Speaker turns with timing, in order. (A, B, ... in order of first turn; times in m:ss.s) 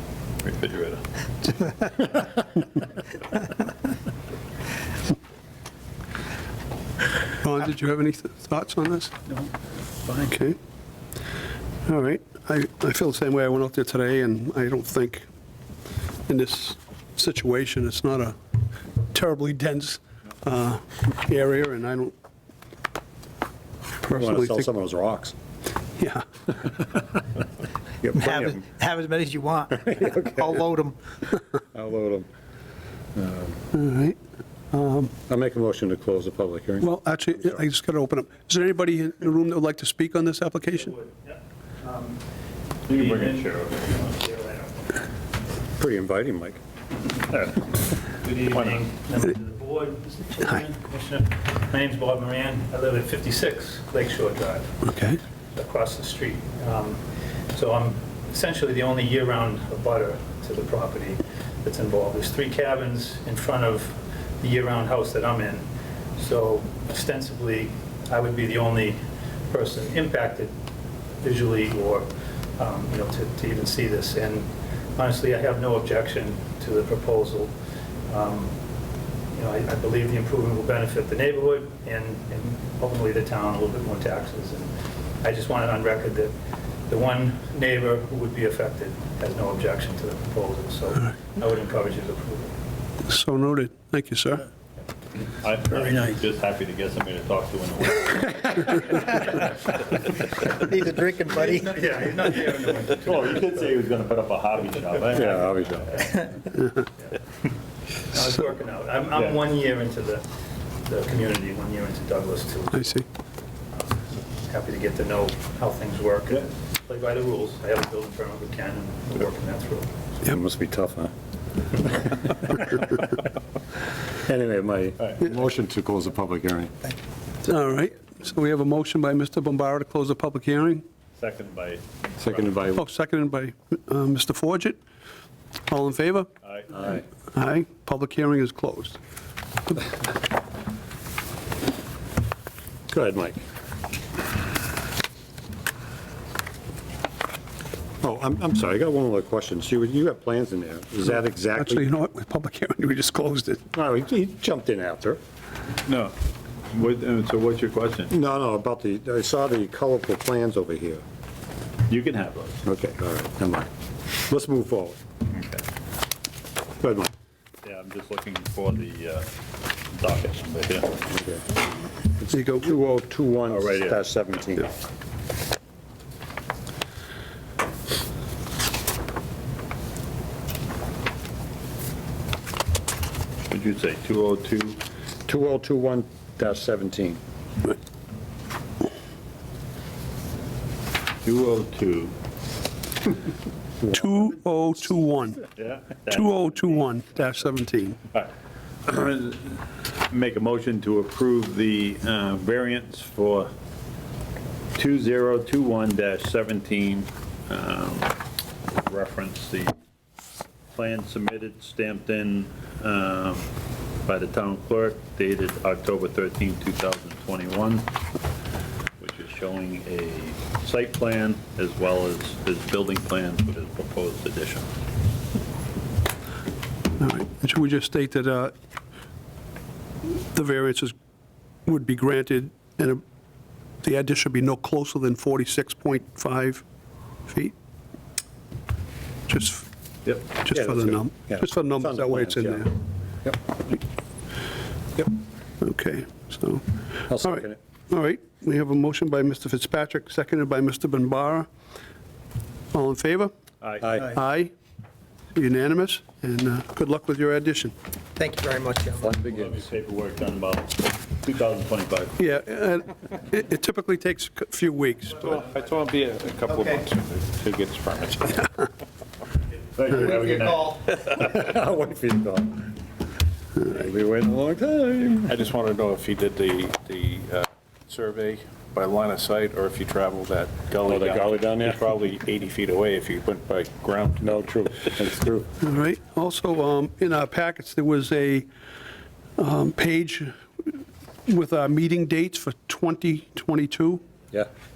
0:00.4-0:01.7 A
0:07.4-0:09.2 B
0:10.2-0:10.6 B
0:11.9-0:15.2 B
0:16.3-0:18.4 B
0:19.1-0:22.1 B
0:24.0-0:24.6 B
0:24.1-0:25.4 C
0:26.0-0:26.2 B
0:28.0-0:28.7 C
0:28.2-0:29.8 D
0:29.7-0:30.5 C
0:30.4-0:31.0 D
0:31.7-0:32.3 C
0:33.2-0:33.5 C
0:33.7-0:34.2 B
0:34.7-0:35.1 B
0:35.3-0:37.6 C
0:36.8-0:40.9 B
0:40.7-0:42.2 E
0:42.9-0:45.1 E
0:42.9-0:43.9 A
0:45.8-0:46.6 C
0:48.0-0:54.8 E
0:48.5-0:48.8 A
0:54.8-0:55.2 B
0:55.6-1:09.0 E
1:09.5-1:10.5 E
1:11.2-1:17.5 E
1:18.1-1:18.5 E
1:19.3-1:26.3 E
1:26.9-1:32.5 E
1:33.0-1:34.4 B
1:35.4-1:39.5 A
1:40.6-1:41.6 D
1:41.3-1:43.7 E
1:43.0-1:46.0 A
1:45.1-1:45.9 C
1:46.0-1:46.3 E
1:48.1-1:50.3 E
1:50.8-1:53.0 E
1:52.8-1:53.0 B
1:53.8-1:59.9 E
2:00.2-2:01.1 C
2:04.2-2:06.8 C
2:07.4-2:10.8 B
2:11.2-2:12.6 A
2:12.2-2:12.8 C
2:12.8-2:14.8 B
2:15.7-2:16.3 B
2:16.4-2:17.0 A
2:17.3-2:19.0 B
2:22.9-2:23.4 C
2:28.0-2:31.9 C
2:31.6-2:33.6 B
2:33.7-2:35.2 C
2:35.9-2:36.2 A
2:36.7-2:38.1 A
2:38.1-2:41.0 C
2:41.9-2:42.6 A
2:42.6-2:45.0 C
2:45.3-2:45.6 A
2:46.8-2:47.1 C
2:47.6-2:49.3 A
2:49.9-2:51.0 A
2:51.1-2:51.4 C
2:52.2-2:54.7 C
2:52.3-2:52.7 B
2:53.5-2:54.0 A
3:03.5-3:04.8 A
3:05.3-3:07.2 C
3:11.2-3:12.1 A
3:13.9-3:15.4 B
3:15.6-3:17.3 A
3:16.1-3:18.0 B
3:18.9-3:23.5 A
3:24.8-3:29.7 A
3:30.7-3:33.5 A
3:34.1-3:37.9 A
3:39.0-3:44.7 A
3:47.0-3:48.5 B
3:50.0-3:50.9 B
3:51.7-3:53.0 B
3:53.8-3:56.6 B
3:57.3-3:57.6 B
3:59.3-3:59.7 B
4:00.3-4:02.7 B
4:00.5-4:02.7 C
4:05.6-4:06.6 B
4:07.1-4:07.6 C
4:07.2-4:11.5 B
4:12.7-4:13.3 B
4:13.6-4:14.1 A
4:14.0-4:14.5 B
4:15.3-4:17.7 B
4:18.2-4:19.1 D
4:19.0-4:22.2 A
4:19.0-4:19.6 C
4:22.2-4:25.4 B
4:25.2-4:28.5 F
4:29.7-4:31.2 A
4:31.1-4:32.7 C
4:33.6-4:35.3 C
4:35.3-4:44.4 F
4:40.8-4:41.8 C
4:44.2-4:45.5 C
4:45.6-4:48.5 B
4:49.4-4:54.0 B